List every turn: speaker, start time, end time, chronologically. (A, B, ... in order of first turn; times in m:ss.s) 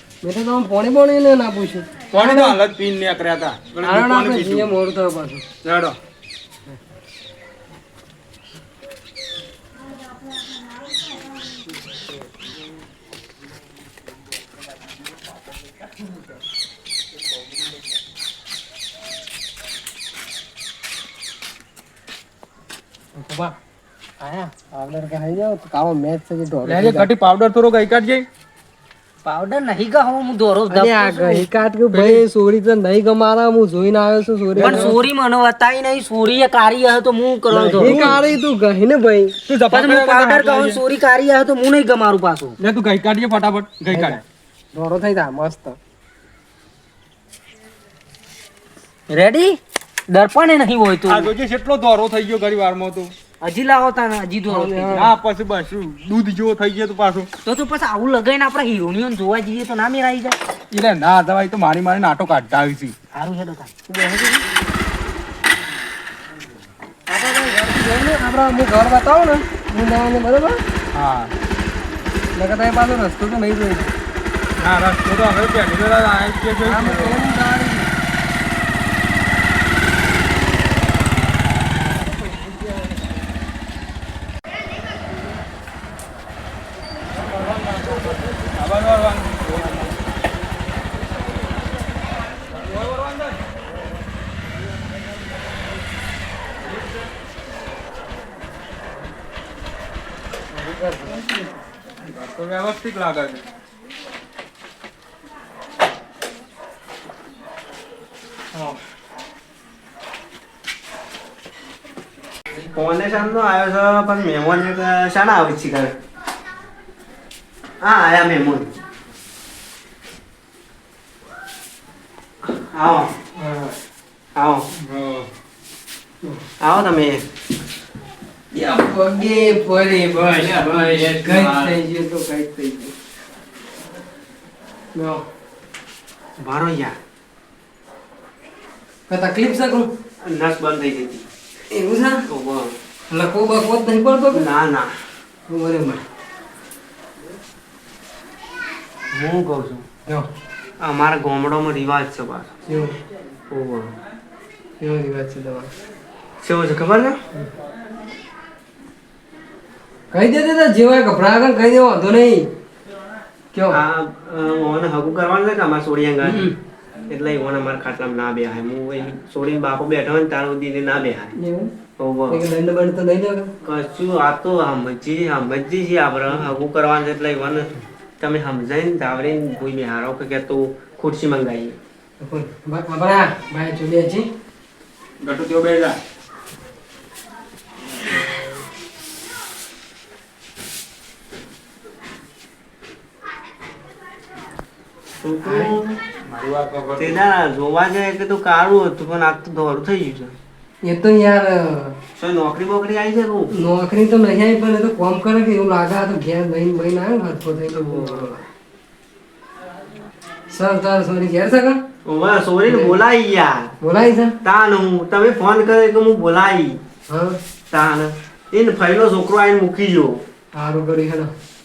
0:00.2-0:02.6 A
0:02.1-0:04.7 B
0:03.8-0:05.4 A
0:05.6-0:06.0 B
0:23.2-0:23.6 A
0:24.2-0:27.1 A
0:26.7-0:28.3 B
0:29.2-0:31.5 C
0:30.7-0:35.0 A
0:31.9-0:32.2 B
0:34.6-0:34.9 B
0:34.6-0:38.2 C
0:37.5-0:38.2 B
0:37.8-0:39.3 A
0:39.5-0:40.8 B
0:39.7-0:42.6 C
0:42.6-0:44.2 B
0:43.9-0:44.2 A
0:44.7-0:45.8 A
0:49.1-0:51.3 C
0:51.1-0:53.1 B
0:53.4-0:55.0 C
0:54.5-0:55.1 A
0:55.0-0:57.3 B
0:57.4-1:00.4 C
1:00.7-1:02.9 B
1:03.1-1:03.7 C
1:03.9-1:04.4 A
1:07.1-1:10.6 A
1:10.9-1:11.3 B
1:12.4-1:13.9 A
1:14.6-1:17.2 B
1:16.6-1:17.9 A
1:27.8-1:29.9 B
1:32.6-1:33.4 B
1:36.7-1:37.0 B
1:40.5-1:41.3 A
1:42.0-1:43.4 B
1:52.7-1:56.0 D
1:57.8-1:58.7 D
2:02.7-2:03.1 D
2:03.4-2:03.8 A
2:04.4-2:04.7 D
2:04.8-2:05.3 B
2:06.6-2:07.2 D
2:08.5-2:12.9 A
2:10.2-2:11.8 B
2:15.0-2:15.2 A
2:16.4-2:17.0 D
2:19.1-2:19.9 A
2:20.2-2:21.3 D
2:21.7-2:22.2 A
2:22.3-2:22.8 D
2:23.1-2:24.4 A
2:24.3-2:24.9 D
2:25.5-2:26.0 A
2:29.1-2:29.8 D
2:30.8-2:32.5 D
2:32.7-2:33.0 A
2:33.5-2:33.9 D
2:34.8-2:35.7 A
2:36.4-2:37.2 D
2:40.1-2:42.5 A
2:43.5-2:43.8 A
2:43.7-2:46.5 D
2:46.2-2:46.5 A
2:47.1-2:51.3 D
2:51.4-2:51.7 A
2:52.0-2:52.4 D
2:52.3-2:53.5 A
2:53.6-2:57.7 D
2:58.2-3:01.8 D
3:02.2-3:04.3 A
3:05.2-3:06.0 B
3:15.2-3:16.0 D
3:15.4-3:15.8 A
3:16.2-3:17.3 B
3:17.0-3:20.3 D
3:20.8-3:22.0 A
3:22.2-3:23.5 D
3:23.5-3:28.4 A
3:27.7-3:28.3 D
3:30.5-3:31.8 A
3:32.0-3:33.7 D
3:32.7-3:33.0 A
3:33.8-3:34.3 A
3:34.4-3:36.8 D
3:37.1-3:37.4 A
3:37.7-3:40.2 D
3:40.5-3:41.3 A